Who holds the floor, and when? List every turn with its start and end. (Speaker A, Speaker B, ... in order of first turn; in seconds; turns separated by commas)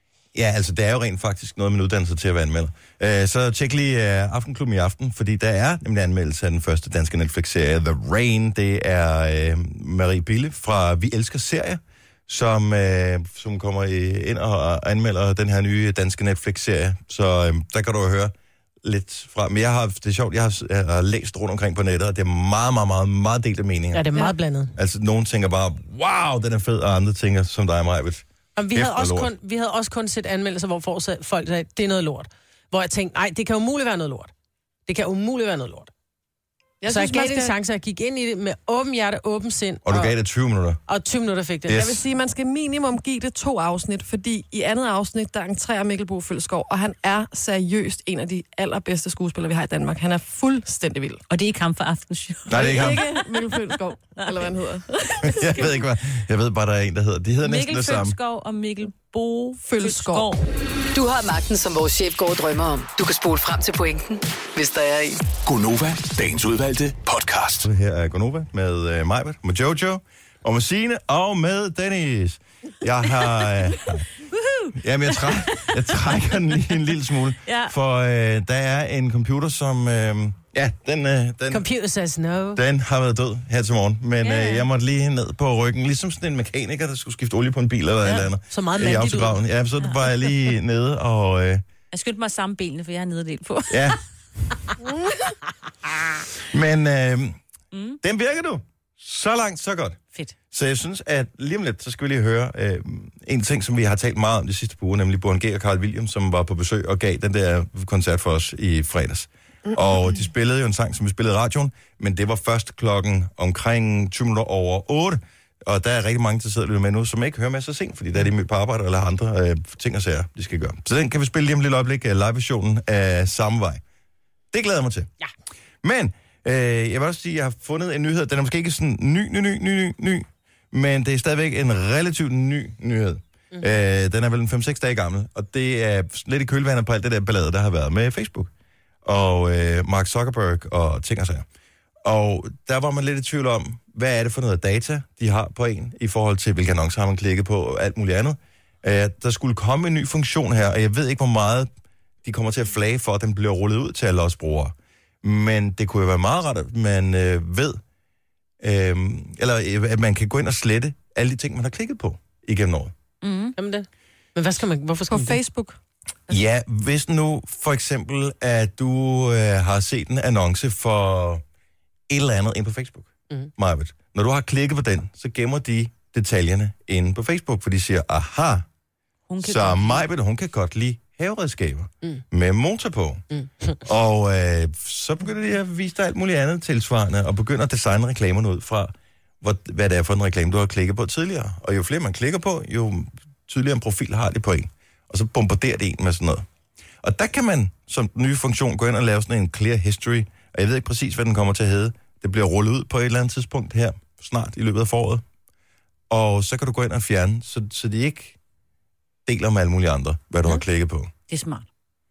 Speaker A: 0.3-24.1, Speaker B: 23.9-24.7, Speaker A: 24.8-29.3, Speaker B: 28.6-34.3, Speaker B: 34.9-35.9, Speaker C: 36.8-37.5, Speaker B: 36.9-40.1, Speaker A: 39.9-40.8, Speaker B: 40.9-42.0, Speaker A: 41.7-42.0, Speaker C: 41.7-51.2, Speaker D: 51.3-53.3, Speaker A: 52.5-53.1, Speaker C: 52.5-55.7, Speaker A: 55.2-58.2, Speaker D: 57.4-60.5, Speaker C: 59.7-60.3, Speaker E: 60.9-65.3, Speaker F: 65.4-67.7, Speaker A: 67.6-74.1, Speaker D: 74.3-76.1, Speaker A: 74.8-81.7, Speaker D: 77.5-77.7, Speaker B: 81.5-82.6, Speaker A: 82.5-91.6, Speaker D: 84.2-84.7, Speaker B: 88.0-89.4, Speaker D: 91.9-94.0, Speaker A: 93.7-94.0, Speaker C: 94.8-95.3, Speaker A: 96.5-97.4, Speaker D: 97.7-98.0, Speaker A: 98.0-100.0, Speaker A: 100.5-123.8, Speaker C: 109.7-110.0, Speaker A: 124.5-125.1, Speaker A: 125.8-138.5, Speaker A: 139.1-141.4, Speaker A: 142.0-151.7, Speaker A: 152.2-157.8, Speaker A: 158.6-162.9, Speaker D: 163.2-163.6, Speaker B: 163.6-165.4, Speaker C: 165.1-165.8, Speaker A: 166.3-171.4, Speaker A: 172.1-178.7, Speaker D: 179.3-180.1, Speaker A: 179.4-183.2, Speaker B: 183.3-183.8, Speaker A: 183.8-196.4, Speaker A: 197.0-205.2, Speaker A: 206.1-208.4, Speaker A: 209.3-211.1, Speaker D: 211.3-211.7